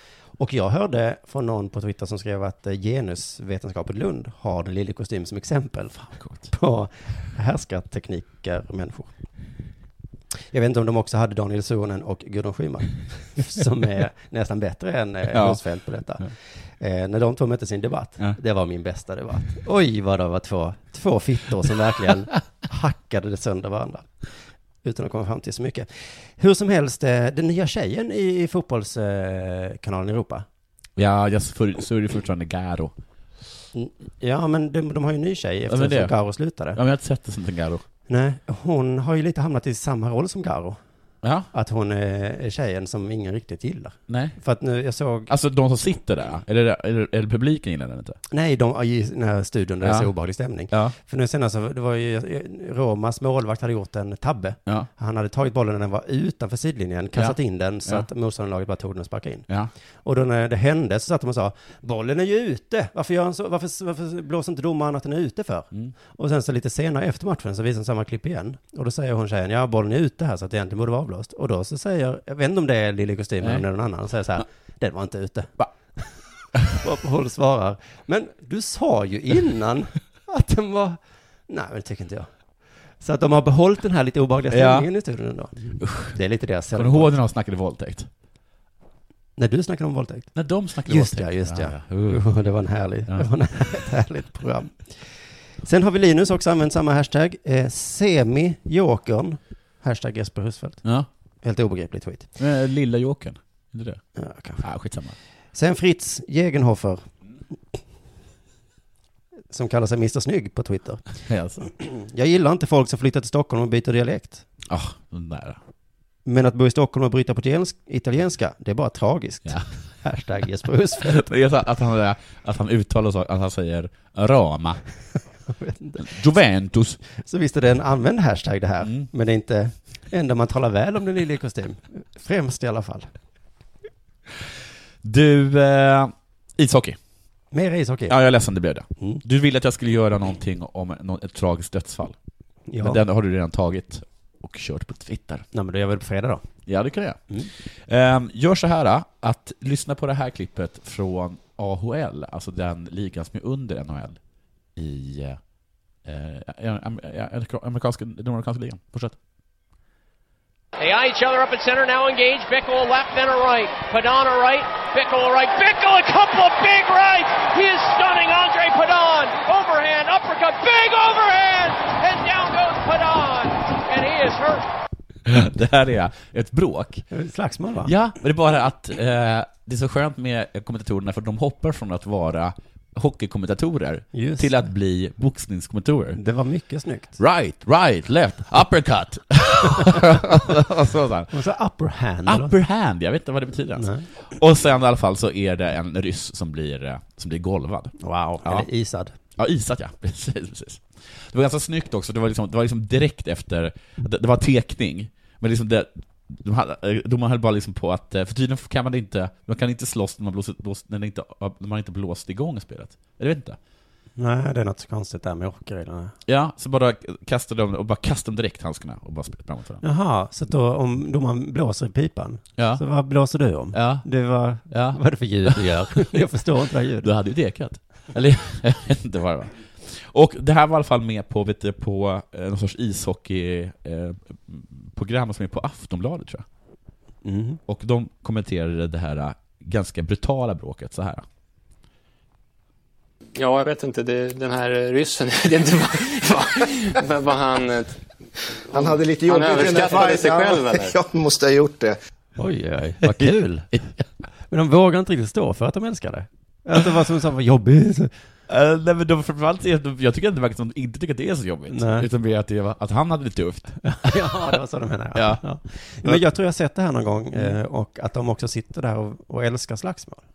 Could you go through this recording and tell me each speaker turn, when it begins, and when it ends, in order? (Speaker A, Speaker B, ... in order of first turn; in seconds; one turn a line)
Speaker A: 0.4-9.1
Speaker B: 6.0-6.5
Speaker A: 10.5-24.1
Speaker B: 15.3-15.6
Speaker A: 24.8-30.4
Speaker B: 31.0-32.9
Speaker A: 33.7-36.8
Speaker B: 35.7-36.2
Speaker B: 36.7-37.8
Speaker A: 38.1-40.8
Speaker B: 41.2-41.5
Speaker A: 41.5-45.3
Speaker B: 44.1-44.4
Speaker B: 45.3-48.2
Speaker A: 48.3-59.5
Speaker B: 49.8-50.1
Speaker B: 50.7-51.0
Speaker B: 57.1-58.1
Speaker A: 60.0-75.5
Speaker B: 73.4-73.7
Speaker A: 76.7-82.3
Speaker A: 83.0-87.1
Speaker B: 84.5-84.9
Speaker B: 85.8-86.2
Speaker B: 86.7-88.1
Speaker A: 89.4-90.3
Speaker B: 90.3-92.3
Speaker A: 90.8-95.0
Speaker A: 95.6-100.8
Speaker A: 101.4-102.3
Speaker B: 102.4-104.0
Speaker A: 104.2-104.6
Speaker B: 104.6-105.2
Speaker A: 105.5-107.1
Speaker A: 109.5-111.0
Speaker B: 111.3-111.7
Speaker A: 111.6-114.5
Speaker B: 114.7-115.6
Speaker A: 116.3-121.3
Speaker B: 121.0-124.8
Speaker A: 125.5-126.1
Speaker B: 126.0-127.0
Speaker A: 127.2-133.1
Speaker B: 128.8-129.1
Speaker B: 135.0-137.0
Speaker A: 137.5-138.2
Speaker B: 138.1-142.2
Speaker A: 142.7-143.0
Speaker B: 142.8-145.4
Speaker A: 145.5-146.4
Speaker B: 146.7-154.2
Speaker B: 154.8-155.4
Speaker B: 156.0-159.2
Speaker C: 160.8-174.7
Speaker B: 175.3-177.0
Speaker A: 177.1-177.9
Speaker B: 177.8-186.2
Speaker A: 184.1-184.5
Speaker A: 186.2-187.2
Speaker B: 187.2-191.3
Speaker A: 191.3-192.6
Speaker B: 192.3-198.7
Speaker A: 193.8-194.1
Speaker A: 198.0-199.2
Speaker B: 199.4-213.6
Speaker A: 214.2-216.1
Speaker B: 216.3-219.8
Speaker A: 219.8-227.1
Speaker B: 222.6-222.8
Speaker B: 223.7-224.1
Speaker B: 224.7-226.1
Speaker B: 227.0-236.4
Speaker A: 237.2-237.6
Speaker B: 237.7-241.2
Speaker D: 243.4-248.0
Speaker E: 248.7-251.9
Speaker D: 248.8-251.0
Speaker A: 252.4-253.7
Speaker B: 253.1-253.8
Speaker A: 254.5-258.1
Speaker B: 258.5-264.3
Speaker A: 261.7-262.1
Speaker A: 263.8-270.2
Speaker B: 265.1-265.4